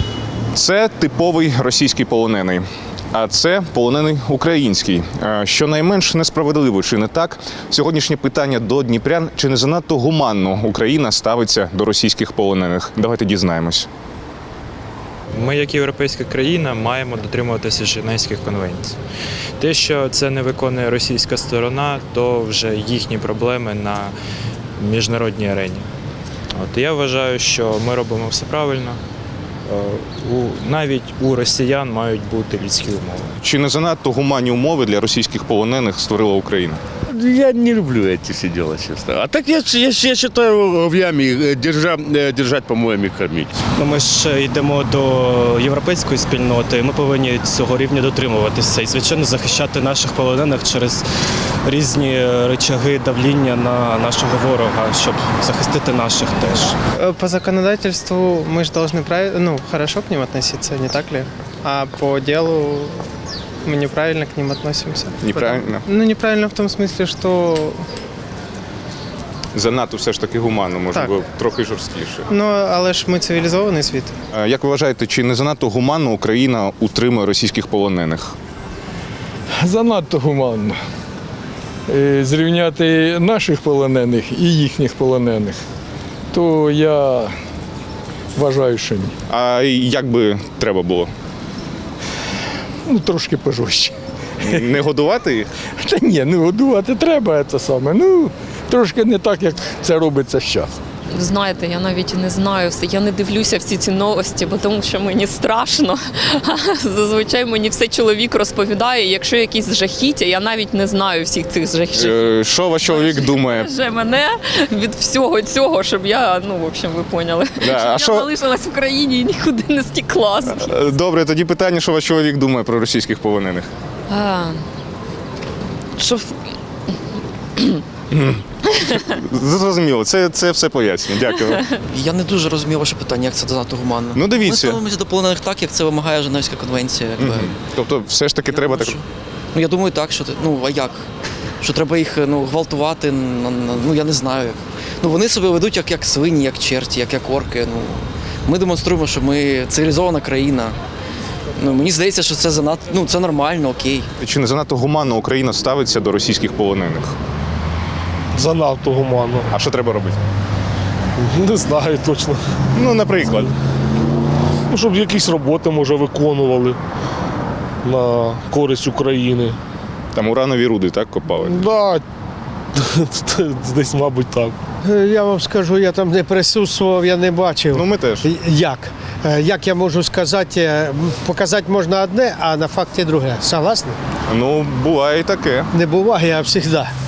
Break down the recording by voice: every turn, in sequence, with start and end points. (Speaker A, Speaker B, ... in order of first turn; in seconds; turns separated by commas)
Speaker A: 0.5-13.9, Speaker B: 15.3-19.0, Speaker B: 19.6-24.1, Speaker B: 24.8-25.9, Speaker B: 26.6-29.0, Speaker B: 29.7-33.3, Speaker A: 33.4-36.8, Speaker C: 37.1-43.6, Speaker D: 43.8-51.1, Speaker D: 51.6-56.8, Speaker E: 57.0-63.1, Speaker E: 63.6-67.8, Speaker A: 65.2-65.8, Speaker A: 69.5-72.2, Speaker E: 72.3-74.1, Speaker A: 74.3-78.3, Speaker F: 79.6-80.8, Speaker F: 81.9-85.6, Speaker F: 86.3-87.3, Speaker F: 88.3-89.1, Speaker A: 89.3-91.1, Speaker F: 92.9-93.9, Speaker A: 94.4-95.5, Speaker F: 95.8-100.7, Speaker G: 101.1-112.3, Speaker A: 112.0-113.7, Speaker G: 112.8-120.8, Speaker A: 117.6-118.3, Speaker A: 120.5-123.7, Speaker G: 124.1-124.6, Speaker G: 126.0-126.3, Speaker A: 128.1-131.6, Speaker H: 131.8-137.4, Speaker A: 134.1-134.8, Speaker A: 137.2-139.0, Speaker H: 138.6-138.8, Speaker H: 139.5-141.1, Speaker H: 141.6-150.8, Speaker H: 151.6-154.1, Speaker A: 154.2-157.2, Speaker I: 158.3-159.5, Speaker A: 159.5-160.2, Speaker I: 161.2-162.4, Speaker A: 162.7-163.5, Speaker I: 164.7-166.8, Speaker I: 167.8-169.6, Speaker A: 170.1-171.7, Speaker I: 171.5-172.1, Speaker I: 172.7-174.6, Speaker J: 174.8-184.0, Speaker A: 177.7-178.3, Speaker A: 184.3-185.7, Speaker J: 185.7-186.9